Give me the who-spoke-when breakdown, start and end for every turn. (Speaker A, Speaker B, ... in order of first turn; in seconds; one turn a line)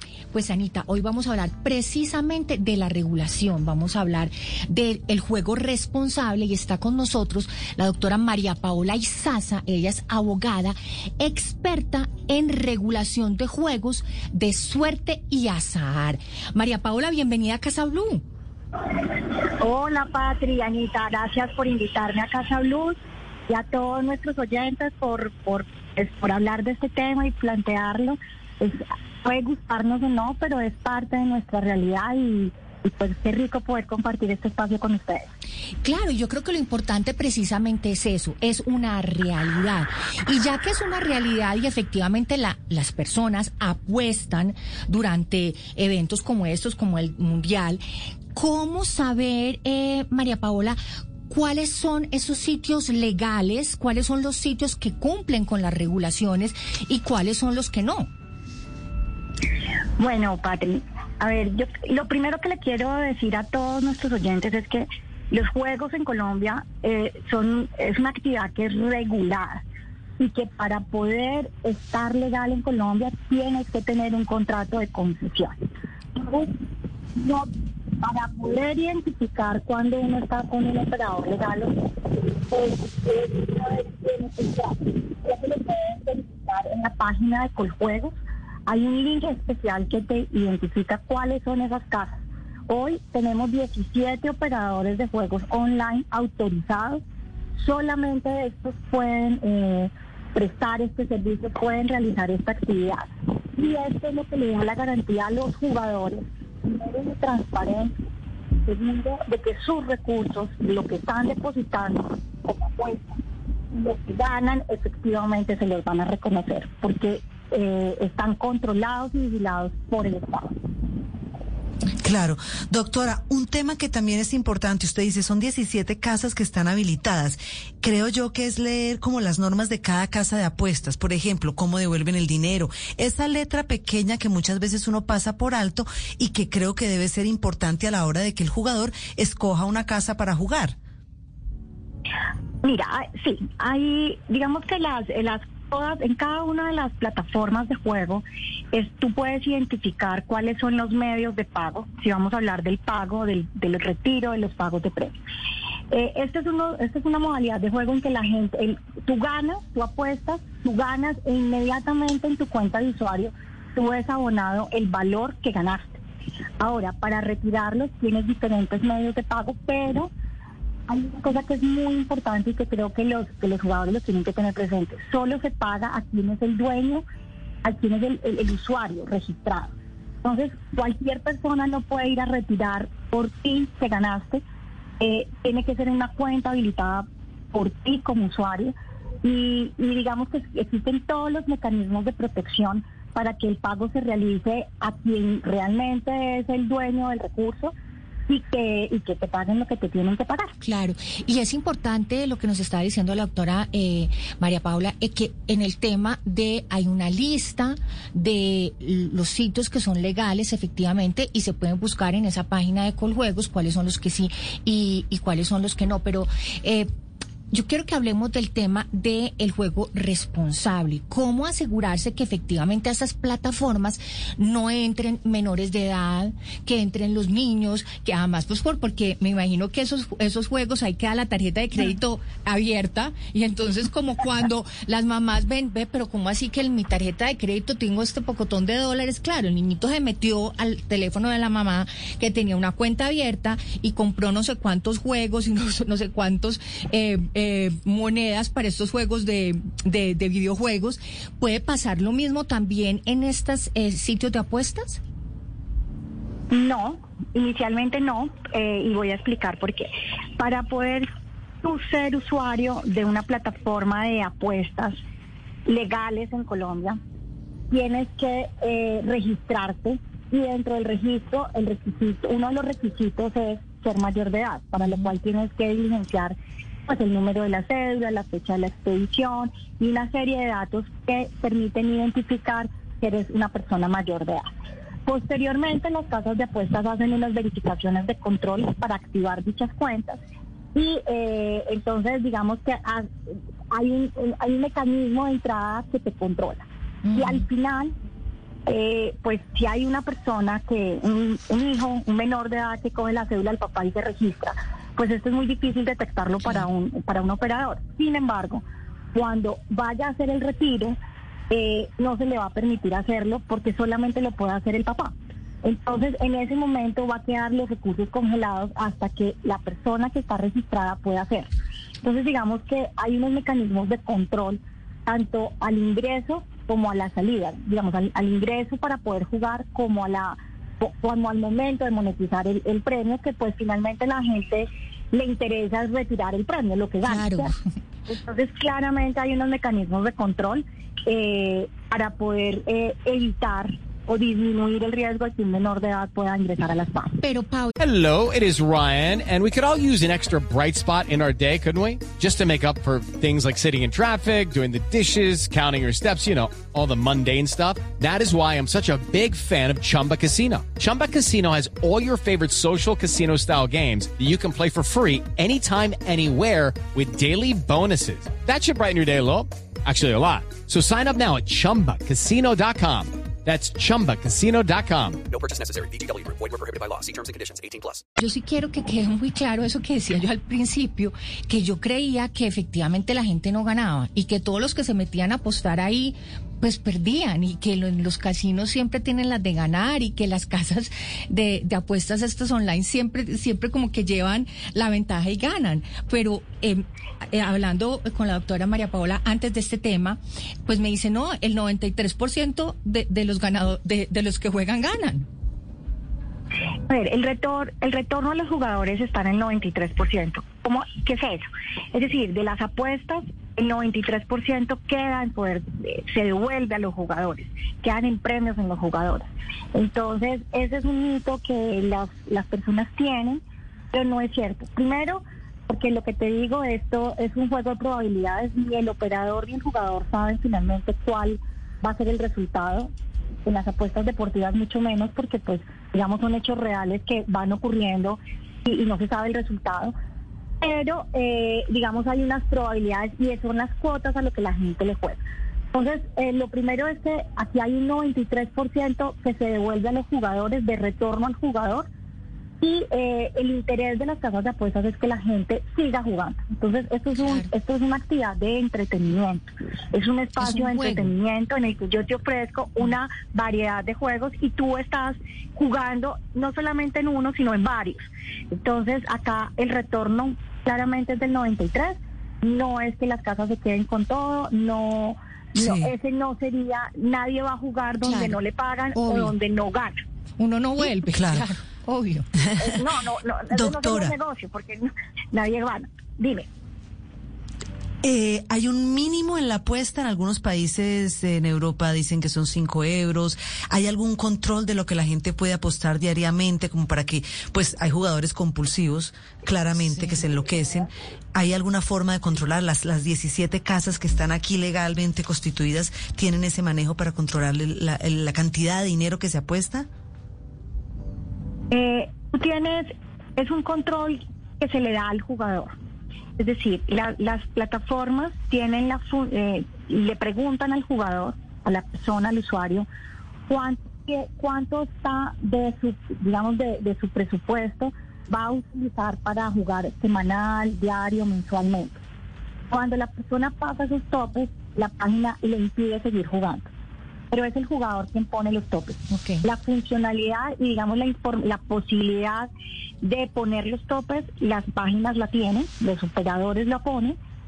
Speaker A: 0.3-18.2
Speaker B: 19.6-23.0
Speaker B: 23.5-35.3
Speaker A: 35.8-47.8
Speaker A: 48.4-50.8
Speaker A: 51.3-58.1
Speaker B: 60.0-69.6
Speaker B: 70.2-75.5
Speaker B: 76.2-77.5
Speaker B: 78.0-81.8
Speaker B: 82.5-88.1
Speaker B: 88.7-97.0
Speaker B: 97.6-107.9
Speaker B: 108.7-113.2
Speaker B: 113.7-120.5
Speaker C: 122.0-140.8
Speaker B: 142.6-155.2
Speaker B: 155.9-166.0
Speaker B: 166.6-170.1
Speaker B: 170.9-177.0
Speaker B: 177.6-179.7
Speaker B: 180.2-184.4
Speaker B: 185.0-197.7
Speaker B: 198.3-200.5
Speaker A: 200.6-216.9
Speaker A: 217.5-255.0
Speaker B: 256.5-261.1
Speaker B: 261.6-265.0
Speaker B: 265.7-267.0
Speaker B: 267.7-276.4
Speaker B: 276.9-284.5
Speaker B: 285.1-290.2
Speaker B: 290.8-297.9
Speaker A: 297.1-297.4
Speaker B: 298.7-308.6
Speaker B: 309.1-311.0
Speaker B: 311.5-321.5
Speaker B: 322.0-337.5
Speaker A: 337.0-337.5
Speaker B: 338.1-347.2
Speaker A: 347.2-347.8
Speaker D: 347.8-375.2
Speaker E: 375.3-378.0
Speaker A: 378.2-405.3
Speaker B: 406.9-423.4
Speaker B: 423.9-432.9
Speaker B: 433.4-439.9
Speaker B: 440.6-445.2
Speaker B: 445.7-451.9
Speaker B: 452.6-480.0
Speaker A: 457.2-457.5
Speaker A: 460.4-461.1
Speaker C: 475.6-475.9
Speaker A: 478.0-478.4
Speaker A: 478.9-479.3
Speaker A: 480.4-482.3
Speaker C: 481.1-481.4
Speaker B: 482.6-486.5
Speaker C: 483.5-484.1
Speaker C: 488.0-509.9
Speaker B: 511.7-515.7
Speaker B: 516.4-522.9
Speaker B: 523.5-532.0
Speaker B: 532.7-536.7
Speaker B: 537.3-542.5
Speaker A: 539.1-539.5
Speaker B: 543.0-547.2